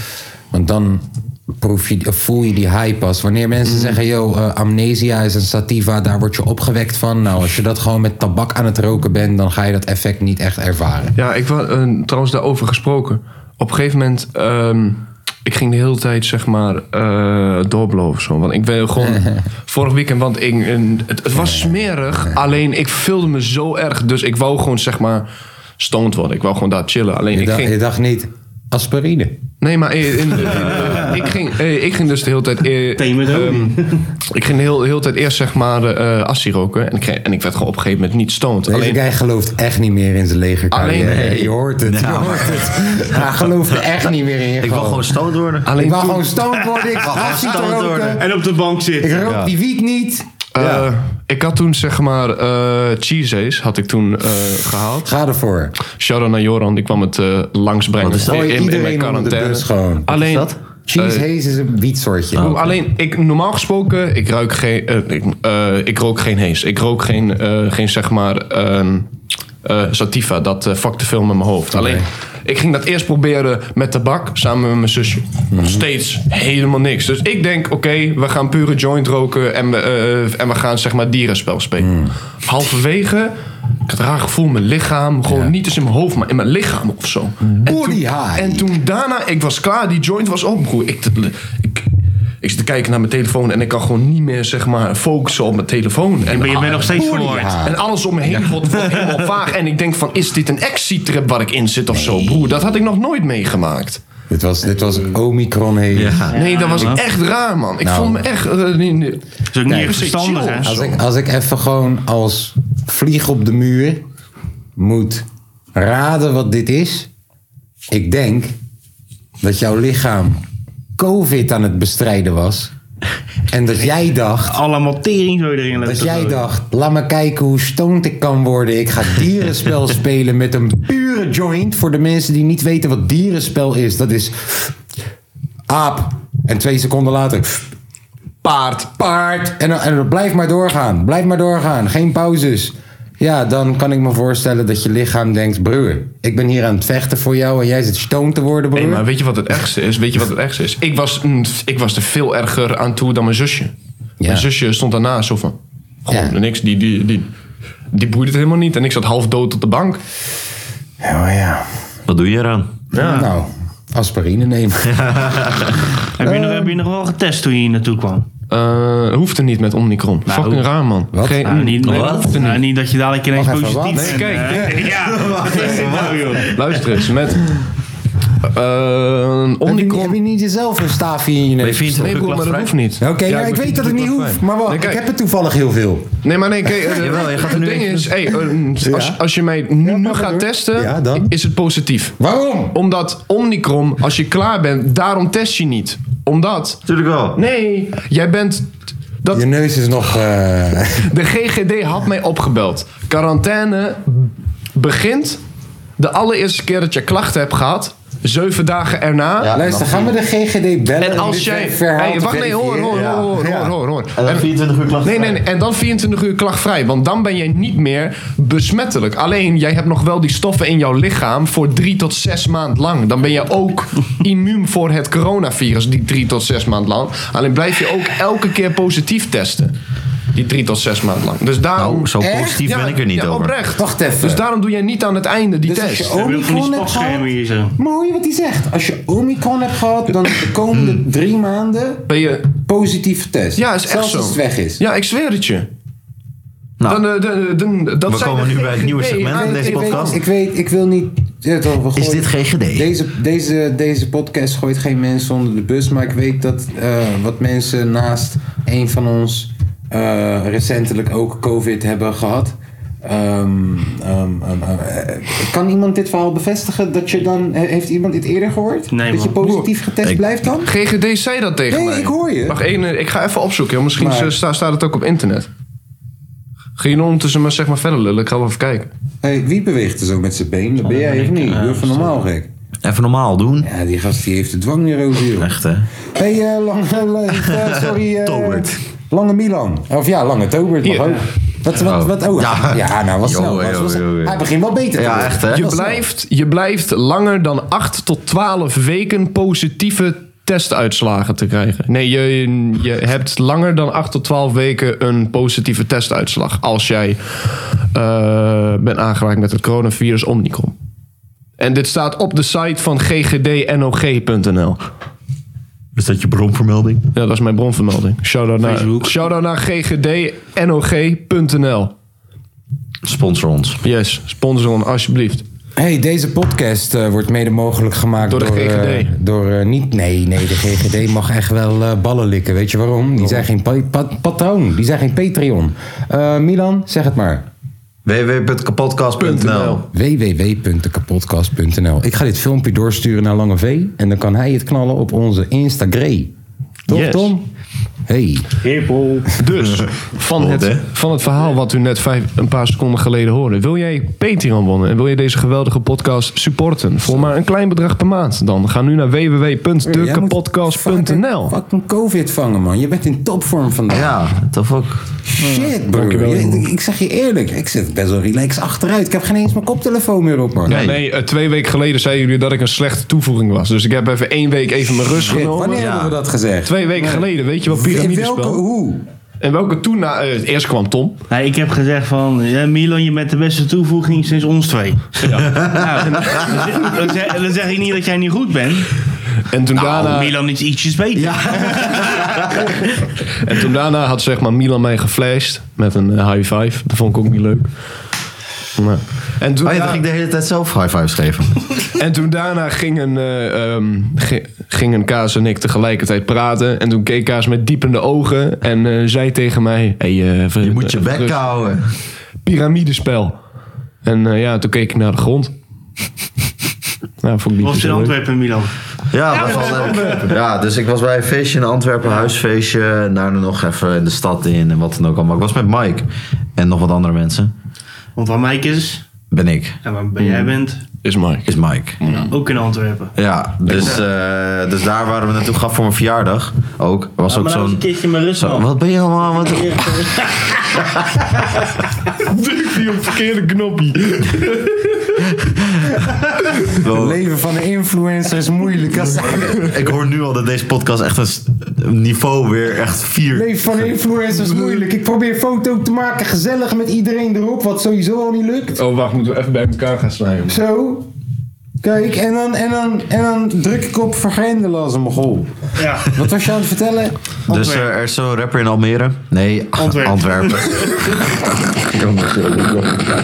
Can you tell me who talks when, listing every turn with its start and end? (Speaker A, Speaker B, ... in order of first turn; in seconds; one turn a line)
Speaker A: 0.5-11.2
Speaker B: 3.7-4.0
Speaker B: 11.2-25.2
Speaker A: 19.0-19.4
Speaker A: 21.3-22.4
Speaker B: 25.8-27.7
Speaker A: 27.3-29.4
Speaker B: 29.6-39.0
Speaker C: 33.0-34.0
Speaker A: 38.7-48.3
Speaker B: 40.7-41.3
Speaker D: 41.0-43.5
Speaker D: 44.6-45.7
Speaker B: 45.7-46.4
Speaker D: 47.0-48.2
Speaker C: 48.1-49.2
Speaker A: 49.0-50.8
Speaker D: 49.2-49.5
Speaker B: 50.5-55.1
Speaker A: 55.0-55.7
Speaker B: 56.0-61.2
Speaker D: 58.0-58.4
Speaker A: 58.1-62.6
Speaker D: 60.2-60.5
Speaker B: 62.3-69.1
Speaker D: 62.4-62.7
Speaker B: 69.6-81.9
Speaker A: 71.7-72.0
Speaker A: 75.5-75.8
Speaker A: 81.8-82.1
Speaker B: 82.4-83.3
Speaker B: 83.9-91.8
Speaker A: 87.5-88.7
Speaker B: 92.4-97.0
Speaker C: 96.3-97.6
Speaker A: 96.8-98.9
Speaker B: 97.6-104.0
Speaker A: 101.9-102.6
Speaker A: 104.3-107.0
Speaker D: 105.9-106.4
Speaker C: 106.3-107.0
Speaker B: 106.3-110.8
Speaker A: 107.8-108.2
Speaker C: 109.5-110.8
Speaker A: 109.7-109.9
Speaker A: 110.6-114.0
Speaker A: 114.8-117.1
Speaker A: 117.9-118.5
Speaker A: 119.4-120.4
Speaker A: 121.0-122.7
Speaker A: 123.5-124.6
Speaker C: 124.4-126.5
Speaker A: 125.8-134.7
Speaker A: 135.7-137.7
Speaker B: 138.4-138.9
Speaker A: 138.9-149.1
Speaker B: 148.7-153.7
Speaker A: 154.2-154.5
Speaker B: 154.3-157.3
Speaker A: 156.1-156.4
Speaker B: 157.9-160.0
Speaker A: 161.0-161.7
Speaker D: 162.1-162.7
Speaker B: 162.9-163.2
Speaker C: 163.0-163.3
Speaker A: 163.0-166.7
Speaker D: 164.9-165.9
Speaker C: 166.2-168.2
Speaker B: 168.5-172.6
Speaker C: 170.3-170.6
Speaker A: 171.1-172.2
Speaker C: 171.4-176.5
Speaker D: 171.8-172.4
Speaker A: 173.3-174.9
Speaker B: 173.9-174.8
Speaker D: 175.1-176.4
Speaker A: 175.5-175.9
Speaker B: 176.5-177.5
Speaker B: 178.4-180.2
Speaker A: 179.6-182.3
Speaker D: 181.6-182.7
Speaker B: 181.9-185.0
Speaker A: 183.0-186.1
Speaker B: 186.2-192.2
Speaker D: 186.9-188.1
Speaker A: 188.8-189.2
Speaker A: 189.8-191.3
Speaker A: 192.2-192.7
Speaker B: 192.7-196.8
Speaker D: 196.8-197.4
Speaker B: 197.3-198.7
Speaker A: 199.3-201.1
Speaker B: 201.0-204.0
Speaker B: 204.7-205.4
Speaker B: 206.0-209.5
Speaker A: 209.4-213.7
Speaker D: 209.5-210.1
Speaker B: 211.0-214.5
Speaker D: 212.9-213.3
Speaker D: 214.1-215.4
Speaker B: 215.0-229.7
Speaker B: 230.3-232.1
Speaker D: 231.8-233.5
Speaker A: 232.2-232.7
Speaker B: 232.6-236.2
Speaker A: 233.7-234.4
Speaker A: 235.7-244.8
Speaker C: 236.1-237.7
Speaker D: 240.7-241.0
Speaker B: 242.1-242.5
Speaker B: 243.6-245.7
Speaker B: 246.8-250.2
Speaker D: 248.1-250.2
Speaker A: 249.2-270.7
Speaker D: 251.9-252.9
Speaker C: 268.9-269.4
Speaker B: 269.4-269.7
Speaker B: 270.6-275.5
Speaker A: 271.7-272.6
Speaker A: 274.0-274.4
Speaker B: 276.8-278.9
Speaker A: 279.2-282.5
Speaker C: 280.8-282.2
Speaker D: 282.8-283.7
Speaker A: 283.6-285.5
Speaker D: 285.4-285.9
Speaker A: 286.1-296.0
Speaker D: 287.5-288.8
Speaker B: 290.8-291.1
Speaker D: 291.8-294.4
Speaker D: 294.9-295.8
Speaker B: 295.5-310.7
Speaker B: 311.6-314.8
Speaker D: 315.9-317.0
Speaker B: 317.1-321.9
Speaker C: 318.6-319.2
Speaker D: 323.0-323.8
Speaker B: 323.8-325.4
Speaker A: 325.8-337.5
Speaker B: 328.3-329.1
Speaker D: 338.0-339.8
Speaker B: 339.2-339.8
Speaker A: 339.9-346.3
Speaker B: 346.9-347.3
Speaker A: 346.9-347.4
Speaker A: 348.1-348.6
Speaker C: 348.6-349.3
Speaker B: 349.4-361.6
Speaker D: 349.6-350.8
Speaker A: 359.8-364.2
Speaker D: 363.9-365.1
Speaker A: 365.2-370.8
Speaker B: 365.4-366.7
Speaker B: 370.6-375.8
Speaker D: 370.7-371.0
Speaker A: 375.1-376.7
Speaker D: 375.7-376.1
Speaker B: 376.6-378.6
Speaker A: 377.7-379.0
Speaker B: 379.4-381.2
Speaker C: 381.3-388.9
Speaker B: 385.2-386.9
Speaker D: 385.5-385.8
Speaker B: 389.5-390.3
Speaker D: 389.8-390.1
Speaker C: 389.9-392.5
Speaker D: 391.1-392.8
Speaker B: 393.4-397.7
Speaker B: 398.8-400.0
Speaker D: 399.6-401.6
Speaker B: 402.0-411.5
Speaker D: 410.6-411.9
Speaker B: 412.4-413.4
Speaker B: 414.0-415.5
Speaker B: 417.2-418.1
Speaker C: 417.6-418.7
Speaker D: 419.1-427.5
Speaker C: 419.3-420.2
Speaker B: 419.4-420.3
Speaker C: 422.0-422.3
Speaker C: 428.1-429.0
Speaker D: 429.3-429.8
Speaker C: 429.8-430.8
Speaker B: 430.2-430.5
Speaker B: 431.0-431.5
Speaker D: 431.4-432.3
Speaker C: 432.1-433.1
Speaker D: 433.1-440.1
Speaker C: 433.7-434.0
Speaker C: 437.2-440.6
Speaker B: 442.2-445.2
Speaker D: 445.4-446.0
Speaker D: 446.8-447.2
Speaker A: 446.9-449.7
Speaker D: 449.6-453.8
Speaker A: 453.3-458.8
Speaker B: 454.5-454.8
Speaker B: 458.8-460.6
Speaker A: 460.5-461.1
Speaker A: 461.8-465.5
Speaker C: 465.8-466.1
Speaker A: 466.1-467.2
Speaker C: 467.5-467.9
Speaker D: 467.5-471.1
Speaker C: 469.8-471.0
Speaker D: 471.9-472.9